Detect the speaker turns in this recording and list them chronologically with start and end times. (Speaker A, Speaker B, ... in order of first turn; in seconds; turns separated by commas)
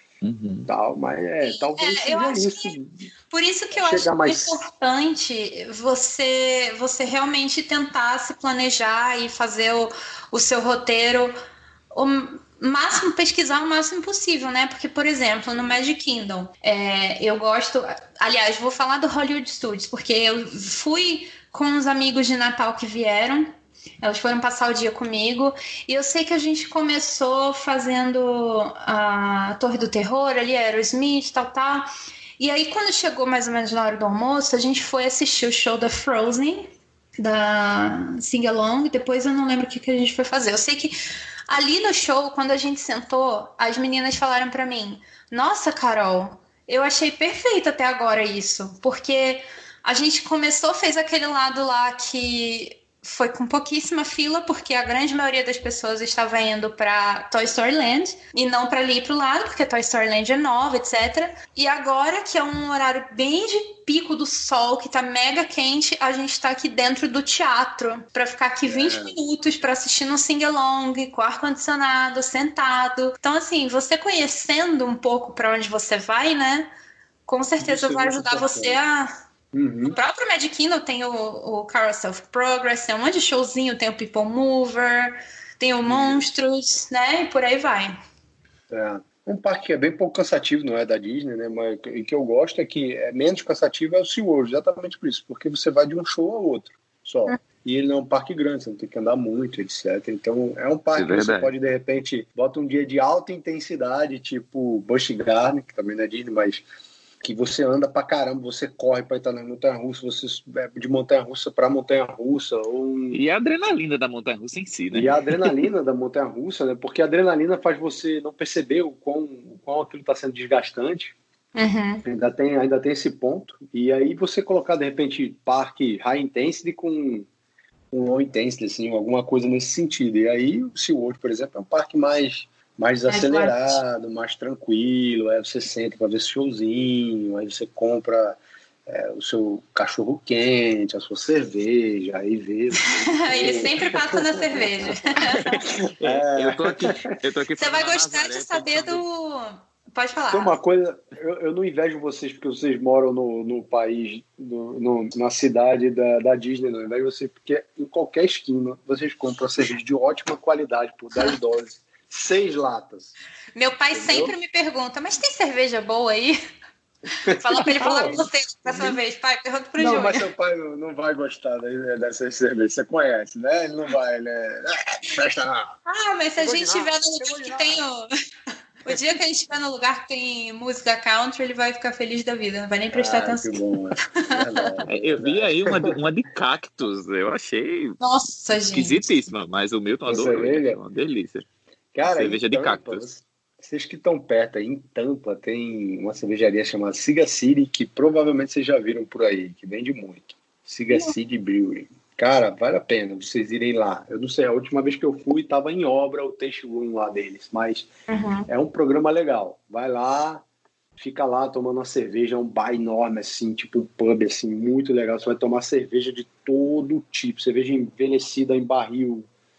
Speaker A: 0.2-0.7, Speaker B: 0.7-3.0, Speaker C: 1.4-2.8, Speaker C: 3.3-11.3, Speaker B: 3.7-4.6, Speaker C: 11.9-41.0, Speaker C: 41.5-76.7, Speaker B: 68.7-69.2, Speaker C: 77.3-79.1, Speaker B: 77.6-78.8, Speaker B: 79.5-80.0, Speaker C: 79.8-87.9, Speaker B: 85.8-86.2, Speaker B: 88.7-106.6, Speaker A: 100.9-101.5, Speaker B: 107.2-113.2, Speaker A: 113.1-115.6, Speaker B: 114.9-121.1, Speaker C: 121.5-122.0, Speaker B: 122.0-127.3, Speaker B: 127.9-147.0, Speaker C: 133.1-133.8, Speaker C: 143.0-145.6, Speaker A: 146.0-149.0, Speaker C: 147.6-150.5, Speaker B: 150.3-163.1, Speaker C: 163.5-166.4, Speaker B: 163.9-164.3, Speaker B: 167.2-169.0, Speaker C: 167.2-170.3, Speaker B: 169.8-175.7, Speaker C: 175.8-178.1, Speaker B: 176.4-177.8, Speaker C: 178.8-183.6, Speaker B: 182.9-186.0, Speaker C: 184.4-184.8, Speaker A: 184.9-188.0, Speaker C: 188.0-189.0, Speaker A: 188.7-191.4, Speaker B: 190.1-190.8, Speaker B: 191.9-207.9, Speaker A: 192.0-193.0, Speaker C: 208.1-208.5, Speaker B: 208.5-210.4, Speaker B: 211.0-219.3